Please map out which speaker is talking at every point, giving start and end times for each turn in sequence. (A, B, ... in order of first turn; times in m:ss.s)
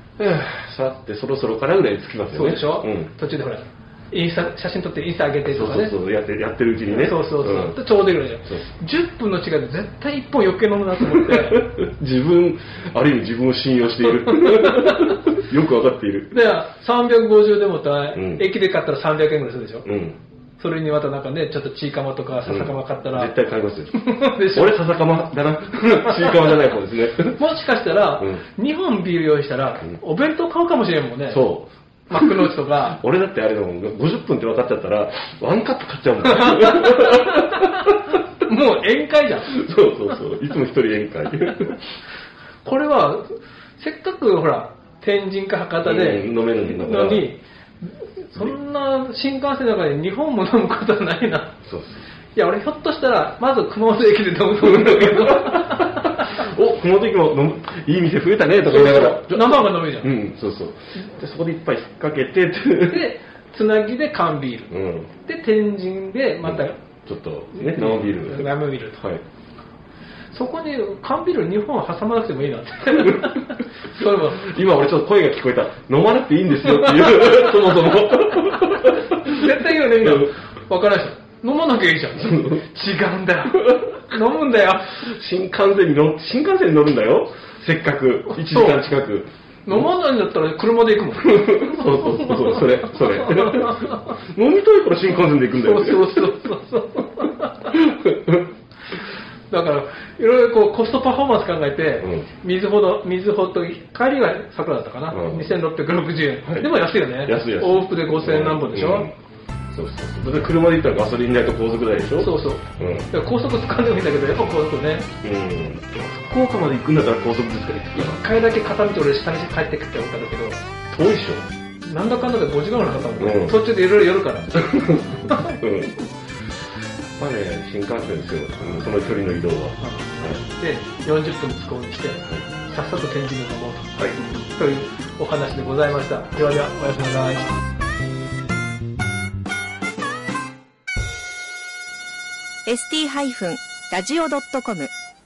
0:00.2-0:03.1 A
0:02.3-0:06.0 B
0:05.4-0:07.8 A
0:06.9-0:11.7 B
0:11.0-0:16.3 A
0:14.2-0:15.2 B
0:16.3-0:19.9 B
0:18.1-0:18.4 A
0:19.8-0:20.2 A
0:20.6-0:23.3 B
0:22.4-0:27.4 A
0:23.9-0:24.8 B
0:25.8-0:26.5 B
0:27.3-0:31.5 B
0:28.2-0:28.4 A
0:31.3-0:38.0 A
0:32.1-0:33.0 B
0:36.3-0:39.6 B
0:39.5-0:41.8 A
0:42.6-0:51.6 B
0:45.8-0:47.3 A
0:51.6-0:52.0 A
0:52.3-0:56.4 B
0:54.6-1:03.1 A
0:58.6-1:00.1 B
1:02.9-1:06.8 B
1:04.7-1:05.1 A
1:06.4-1:09.2 A
1:07.5-1:09.0 B
1:10.3-1:14.5 B
1:12.9-1:20.3 A
1:16.6-1:25.0 B
1:22.2-1:22.6 A
1:25.0-1:29.9 A
1:28.3-1:28.8 B
1:29.6-1:34.1 B
1:31.2-1:36.4 A
1:35.6-1:37.8 B
1:37.7-1:38.4 A
1:39.5-1:49.1 B
1:42.0-1:42.3 A
1:45.1-1:45.6 A
1:46.4-1:49.1 A
1:49.7-1:53.1 A
1:52.2-1:55.1 B
1:55.2-1:58.3 A
1:57.9-2:00.6 B
2:00.9-2:01.5 A
2:01.8-2:05.5 B
2:03.2-2:03.6 A
2:04.6-2:06.0 A
2:07.2-2:10.4 A
2:09.8-2:17.6 B
2:22.6-2:24.9 C